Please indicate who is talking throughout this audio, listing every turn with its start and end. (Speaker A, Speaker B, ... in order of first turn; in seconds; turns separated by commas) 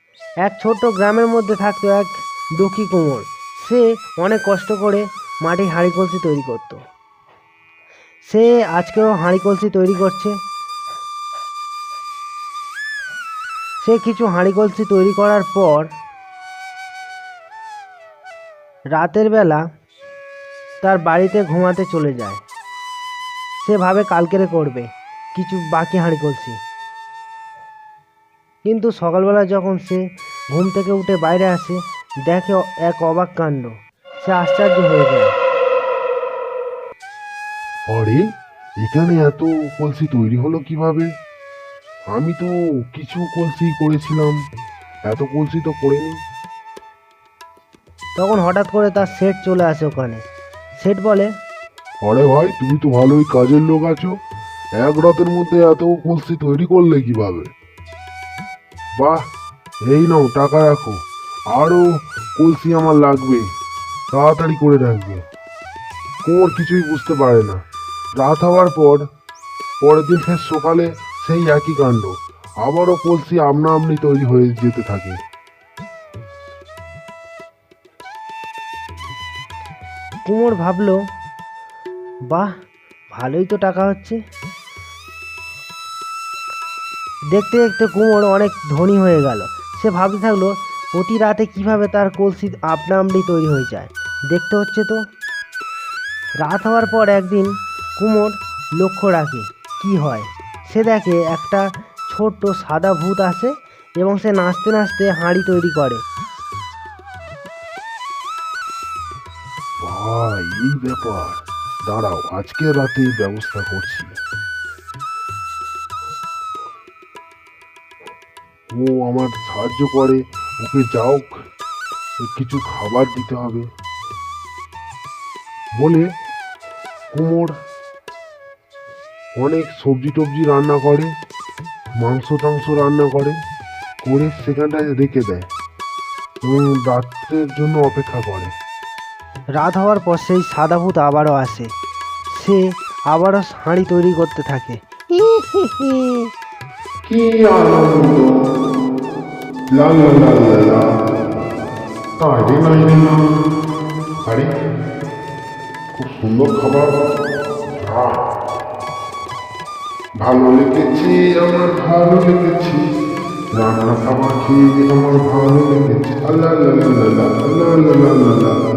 Speaker A: 0.4-6.8, Speaker A: 8.3-10.3, Speaker A: 13.8-15.9, Speaker A: 18.9-19.6, Speaker A: 20.8-22.4, Speaker A: 23.6-26.6, Speaker A: 28.6-30.0, Speaker A: 30.5-35.3, Speaker B: 37.9-38.2, Speaker B: 38.8-41.1, Speaker B: 42.1-44.4, Speaker B: 45.1-46.2, Speaker A: 48.2-50.2, Speaker A: 50.8-51.3, Speaker B: 52.0-54.2, Speaker B: 54.8-57.5, Speaker B: 59.9-61.0, Speaker B: 61.5-61.8, Speaker B: 62.4-63.5, Speaker B: 64.1-65.2, Speaker B: 66.2-67.6, Speaker B: 68.2-69.0, Speaker B: 69.8-75.2, Speaker A: 80.2-81.0, Speaker A: 83.1-84.2, Speaker A: 87.3-95.0, Speaker A: 96.4-106.0, Speaker B: 109.8-114.2, Speaker B: 118.7-121.3, Speaker B: 122.2-123.7, Speaker B: 125.8-126.1, Speaker B: 127.1-127.5, Speaker B: 129.3-131.1, Speaker B: 132.0-133.3, Speaker B: 134.0-135.5, Speaker B: 136.4-138.5, Speaker A: 139.6-141.7, Speaker A: 142.3-146.3, Speaker B: 147.1-148.3, Speaker B: 149.7-150.8, Speaker B: 152.2-153.2, Speaker B: 155.9-156.9, Speaker B: 157.8-158.2, Speaker B: 160.2-162.8, Speaker B: 163.5-168.6